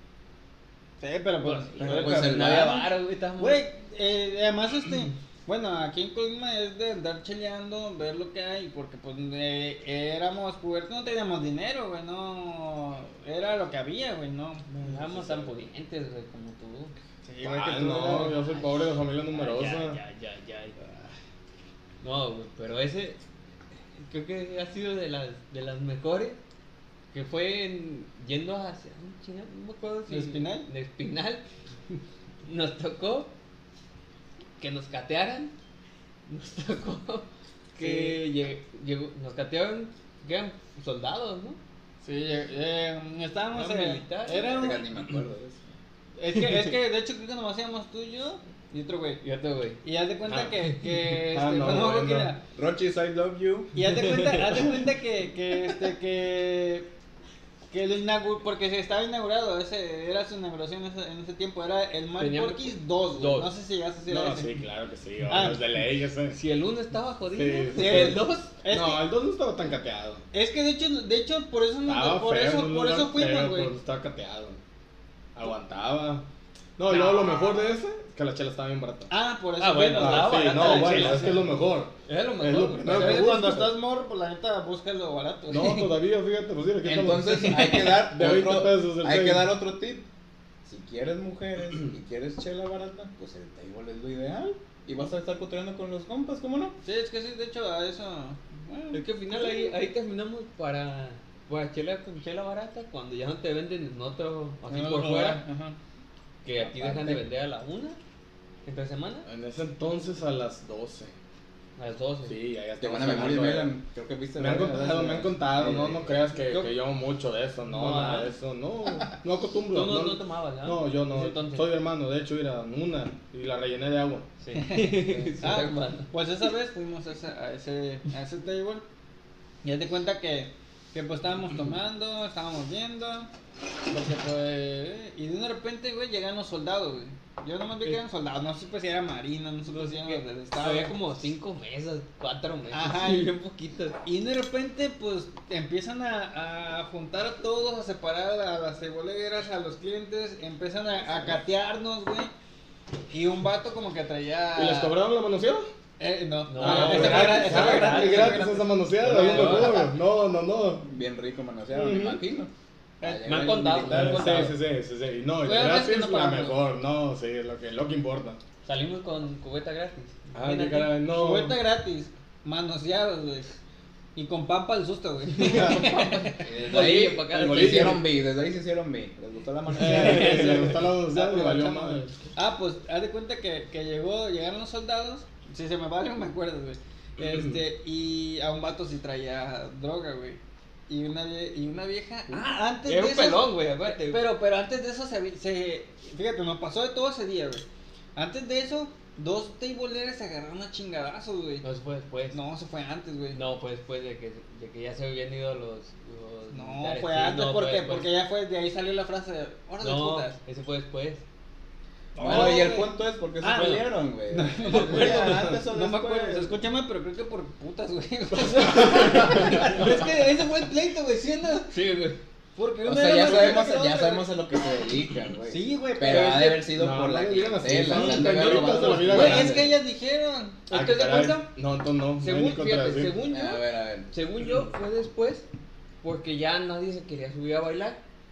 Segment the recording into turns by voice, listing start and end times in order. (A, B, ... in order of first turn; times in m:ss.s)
0:01.0-0:02.5 A
0:01.4-0:03.6 B
0:01.8-0:02.9 C
0:03.4-0:14.7 A
0:14.7-0:15.5 D
0:14.8-0:16.9 B
0:17.2-0:18.4 A
0:17.4-0:20.0 D
0:18.2-0:18.8 B
0:19.3-0:20.8 B
0:22.0-0:23.2 B
0:24.0-0:26.4 B
0:27.1-0:31.4 B
0:30.1-0:30.7 A
0:32.5-0:33.3 B
0:34.6-0:35.5 B
0:36.3-0:41.6 B
0:37.8-0:38.4 A
0:42.0-0:44.8 A
0:43.5-0:44.8 B
0:44.4-0:45.6 C
0:46.2-0:49.2 A
0:49.2-0:49.8 B
0:49.8-0:52.4 A
0:50.3-0:50.5 D
0:51.2-0:52.3 D
0:52.5-0:53.7 C
0:53.7-0:56.9 A
0:54.1-0:54.6 B
0:57.7-1:04.5 A
1:02.2-1:03.5 B
1:04.1-1:06.4 D
1:05.3-1:05.6 A
1:06.3-1:08.5 B
1:07.3-1:10.2 D
1:07.8-1:09.0 A
1:10.3-1:13.7 A
1:11.9-1:14.6 D
1:15.4-1:16.2 D
1:16.8-1:19.1 D
1:16.9-1:17.7 A
1:19.1-1:21.4 A
1:19.6-1:21.5 B
1:19.9-1:23.8 D
1:22.1-1:23.4 B
1:22.9-1:25.9 A
1:25.5-1:29.5 D
1:26.8-1:30.0 C
1:27.2-1:28.0 A
1:30.6-1:36.8 C
1:36.8-1:39.8 A
1:38.9-1:45.4 B
1:44.7-1:45.8 A
1:46.4-1:48.0 B
1:46.7-1:47.2 D
1:48.6-1:49.3 B
1:49.3-1:51.1 D
1:51.8-1:52.4 B
1:52.3-1:53.7 D
1:52.8-1:56.2 C
1:54.4-2:04.3 D
1:56.4-1:56.7 A
1:57.7-1:58.3 B
1:59.7-2:01.7 B
2:04.4-2:06.1 B
2:04.5-2:08.8 A
2:09.6-2:13.3 A
2:13.9-2:20.9 A
2:19.7-2:24.0 B
2:22.7-2:23.3 A
2:24.0-2:32.3 A
2:33.1-2:35.0 A
2:34.6-2:35.7 D
2:36.0-2:39.9 A
2:36.5-2:39.9 B
2:36.6-2:40.9 D
2:40.8-2:42.5 C
2:41.7-2:42.2 D
2:43.0-2:44.5 C
2:43.2-2:44.6 B
2:43.9-2:48.4 D
2:45.4-2:46.6 A
2:48.6-2:50.9 B
2:50.3-2:51.6 D
2:51.1-2:53.5 A
2:54.2-2:56.4 A
2:55.4-2:58.0 B
2:55.4-2:56.0 D
2:56.4-3:00.7 C
2:57.4-2:58.0 D
2:59.8-3:02.1 D
2:59.8-3:00.6 B
3:00.2-3:17.6 A
3:12.3-3:14.3 B
3:18.2-3:21.6 A
3:21.6-3:22.4 B
3:22.3-3:23.4 A
3:23.3-3:28.2 B
3:26.5-3:30.4 A
3:29.8-3:31.2 B
3:32.2-3:41.8 A
3:32.2-3:36.6 C
3:34.8-3:35.3 B
3:41.7-3:42.2 B
3:42.6-3:44.3 A
3:42.8-3:49.6 C
3:45.5-3:46.7 A
3:46.7-3:49.7 D
3:47.9-3:49.6 B
3:47.9-3:50.6 A
3:50.7-3:51.5 B
3:50.7-3:53.2 D
3:52.2-3:55.5 B
3:53.3-3:54.1 C
3:56.0-3:58.0 B